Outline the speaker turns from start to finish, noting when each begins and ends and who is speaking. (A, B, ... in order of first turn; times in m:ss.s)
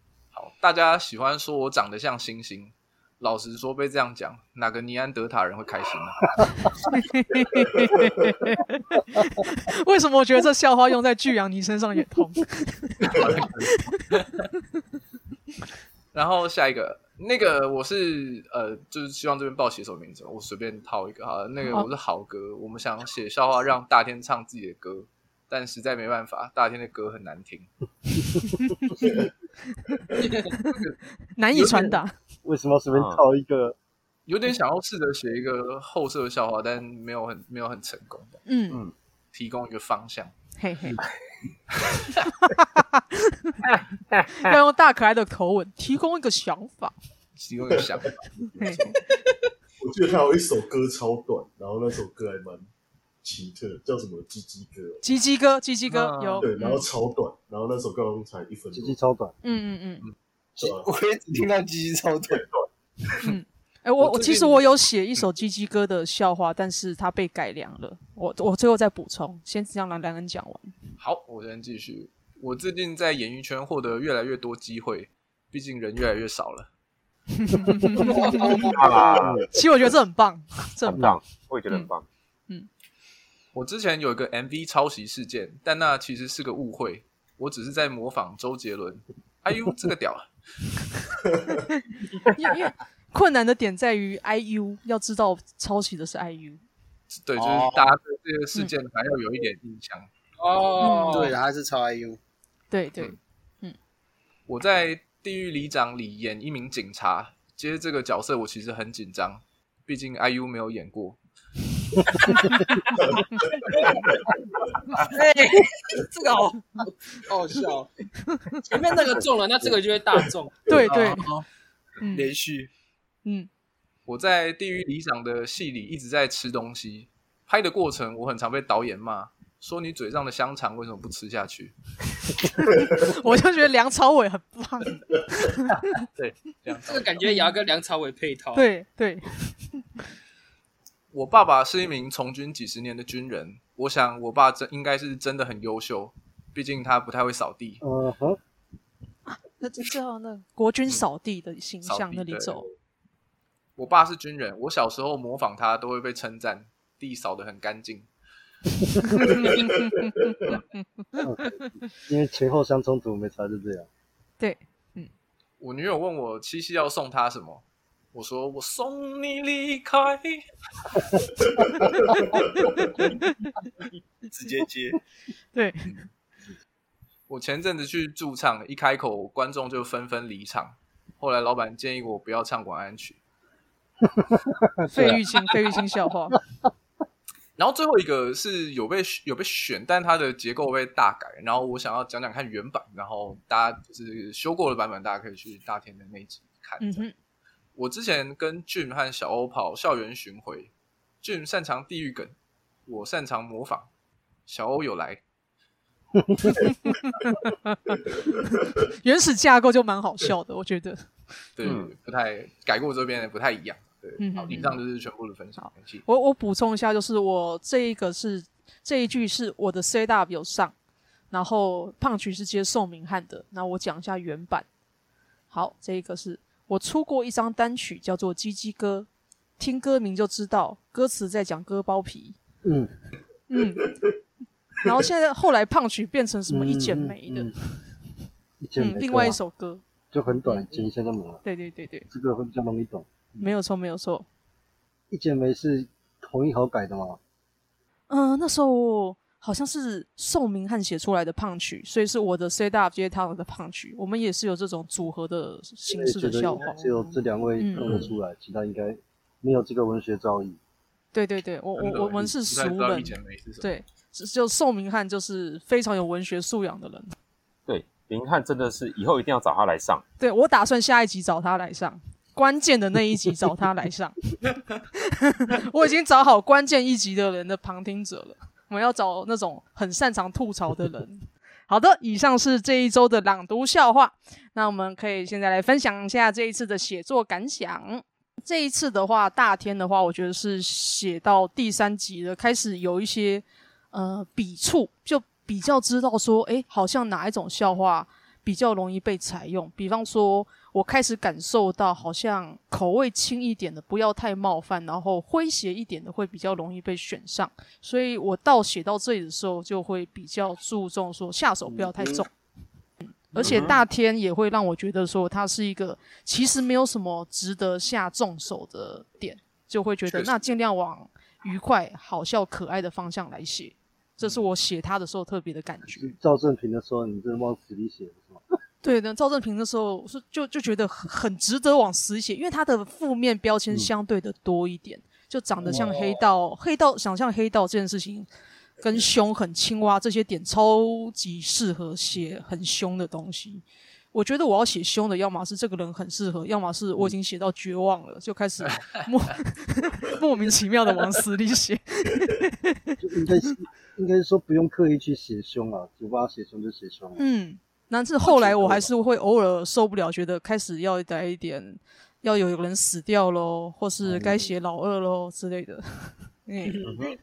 0:00.3-0:06.7 A
0:06.9-0:13.1 B
0:07.8-0:08.3 C
0:13.0-0:14.4 A
0:13.7-0:14.0 B
0:16.1-0:27.7 A
0:30.3-0:30.8 B
0:30.6-0:31.0 A
0:31.4-0:32.1 B
0:32.4-0:33.8 D
0:32.9-0:33.2 E
0:34.3-0:38.4 A
0:38.4-0:38.8 B
0:39.3-0:40.3 A
0:40.6-0:41.0 B
0:41.7-0:42.2 A
0:42.5-0:43.6 B
0:43.6-0:44.6 E
0:44.4-0:46.9 B
0:47.4-0:48.2 A
0:48.6-0:49.0 B
0:48.6-0:48.9 C
0:49.8-0:52.7 C
0:53.2-0:55.0 C
0:55.0-0:56.8 B
0:55.9-0:56.5 A
0:56.4-0:59.0 C
0:58.7-0:59.3 D
0:59.4-1:00.0 B
1:00.6-1:02.4 F
1:00.6-1:00.9 C
1:03.2-1:10.7 B
1:04.0-1:04.6 A
1:11.0-1:16.7 A
1:17.4-1:18.7 B
1:18.0-1:19.2 F
1:18.7-1:19.5 E
1:19.5-1:21.2 B
1:20.8-1:22.0 E
1:23.5-1:30.3 A
1:32.3-1:36.6 B
1:37.1-1:40.1 A
1:37.4-1:37.9 F
1:40.4-1:41.3 G
1:40.8-1:41.3 B
1:41.1-1:42.2 F
1:42.7-1:43.7 B
1:44.5-1:51.2 A
1:52.3-1:52.6 B
1:55.0-1:57.9 G
1:58.3-1:58.6 B
1:58.6-2:00.6 G
2:00.2-2:00.8 C
2:00.7-2:01.2 B
2:00.9-2:01.4 A
2:02.0-2:02.3 B
2:02.2-2:02.5 A
2:04.1-2:11.7 A
2:12.9-2:15.9 B
2:15.9-2:17.2 A
2:16.8-2:18.6 G
2:17.2-2:17.5 B
2:18.5-2:19.8 B
2:21.1-2:27.8 A
2:27.8-2:28.4 D
2:29.3-2:32.6 B
2:31.8-2:32.7 A
2:33.8-2:38.1 A
2:39.0-2:41.7 B
2:39.2-2:40.6 C
2:41.2-2:43.9 D
2:44.4-2:45.1 B
2:45.6-2:47.6 A
2:48.1-2:50.4 A
2:52.2-2:52.8 C
2:53.1-2:53.5 B
2:54.4-2:55.0 A
2:55.5-2:55.9 B
2:57.3-3:03.2 A
3:04.1-3:05.2 D
3:04.9-3:06.4 B
3:07.6-3:17.0 A
3:16.8-3:17.1 B
3:17.8-3:20.7 A
3:21.2-3:22.3 A
3:22.9-3:23.9 A
3:24.5-3:25.2 A
3:26.6-3:31.0 B
3:31.6-3:36.0 A
3:31.6-3:31.9 E
3:34.2-3:34.8 B
3:35.6-3:40.7 B
3:41.3-3:44.6 B
3:45.5-3:49.1 B
3:49.6-3:52.4 B
3:52.6-3:52.9 D
3:53.5-3:53.9 B
3:54.8-3:57.5 B
3:56.5-3:57.6 D
3:58.6-3:59.4 D
3:58.8-3:59.8 B
4:00.1-4:01.4 D
4:00.4-4:00.8 B
4:01.4-4:02.1 B
4:02.1-4:03.5 D
4:03.4-4:04.2 B
4:05.1-4:07.2 D
4:08.1-4:18.0 B
4:15.9-4:20.6 D
4:21.1-4:27.1 B
4:21.8-4:23.7 A
4:27.7-4:30.0 E
4:30.2-4:34.4 B
4:34.9-5:12.3 B
5:11.9-5:12.2 F
5:13.0-5:26.1 B
5:13.4-5:13.7 E
5:25.9-5:28.4 D
5:28.8-5:38.3 B
5:35.6-5:35.9 D
5:38.8-5:52.9 B
5:53.0-5:57.2 D
5:57.2-6:06.8 B
5:58.3-5:58.8 D
6:04.0-6:04.5 D